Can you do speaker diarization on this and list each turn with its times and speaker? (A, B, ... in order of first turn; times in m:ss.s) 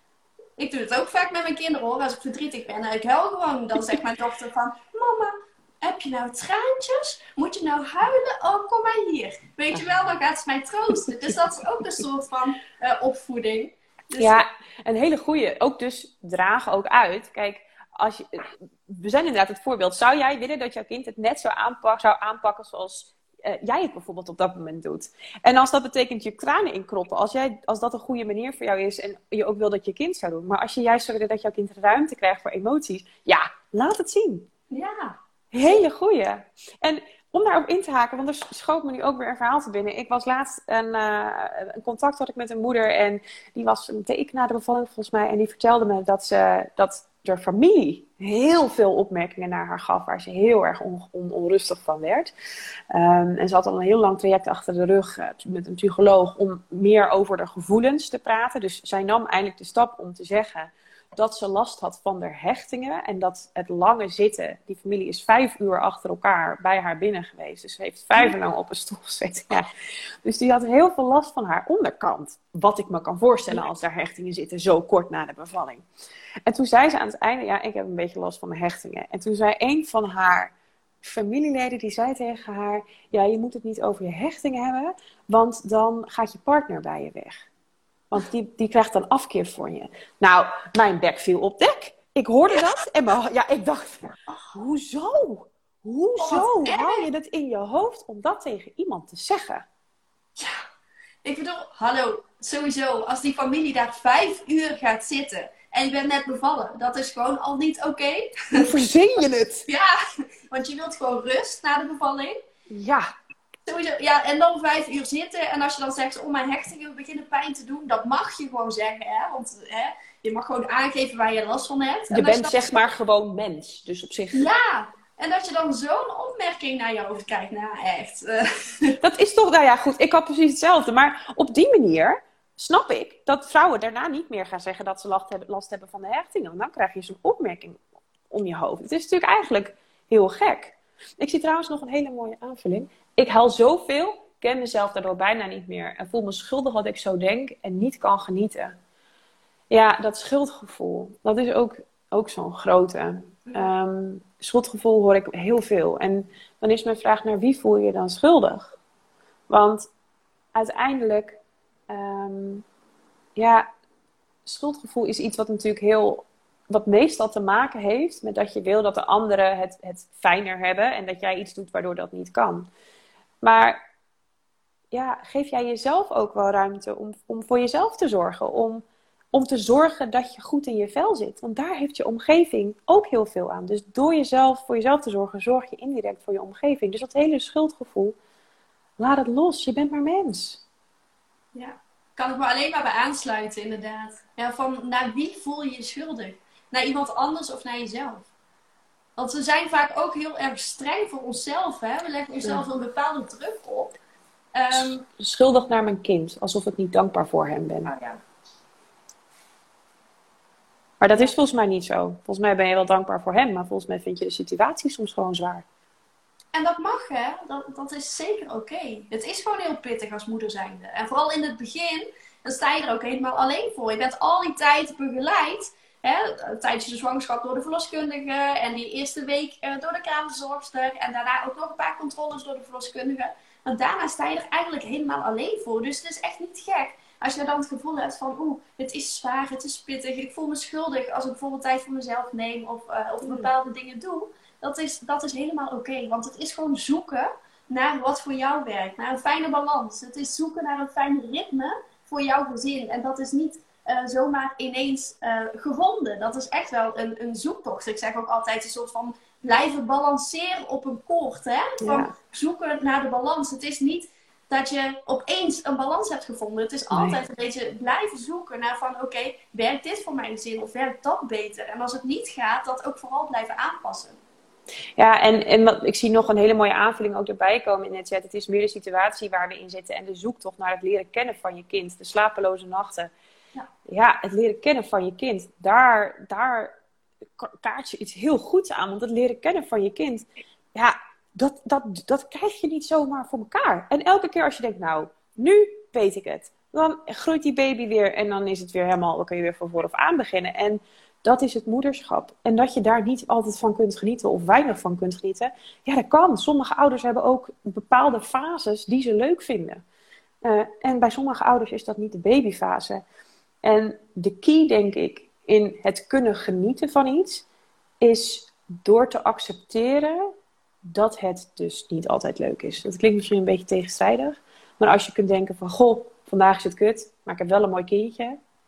0:00.6-0:14.4 A
0:14.2-0:34.5 B
0:34.7-0:35.8 A
0:35.5-0:52.3 B
0:52.9-1:09.7 B
1:10.2-1:15.8 B
1:16.4-1:27.4 B
1:28.1-1:39.6 B
1:36.2-1:37.1 A
1:40.4-1:40.6 A
1:41.2-1:48.8 A
1:48.6-1:49.6 B
1:49.6-1:52.4 A
1:52.7-1:53.1 B
1:53.6-2:02.7 A
2:02.1-2:04.5 B
2:04.3-2:09.0 A
2:09.0-2:28.7 B
2:29.7-2:38.8 B
2:33.5-2:33.7 A
2:39.5-2:39.9 B
2:40.5-2:42.6 B
2:43.4-2:43.7 B
2:44.4-2:52.7 B
2:53.4-2:53.8 B
2:54.9-3:08.2 B
3:09.0-3:10.6 B
3:11.5-3:18.3 A
3:19.2-3:23.9 A
3:24.5-3:25.0 A
3:24.7-3:27.9 B
3:27.8-3:28.2 A
3:31.0-3:35.6 B
3:36.5-4:34.2 A
4:21.8-4:22.1 B
4:26.9-4:27.2 B
4:35.0-4:43.1 B
4:43.9-4:46.7 B
4:47.4-5:09.8 B
5:10.4-5:13.0 B
5:13.6-5:17.4 B
5:18.0-5:20.3 B
5:20.9-5:28.4 B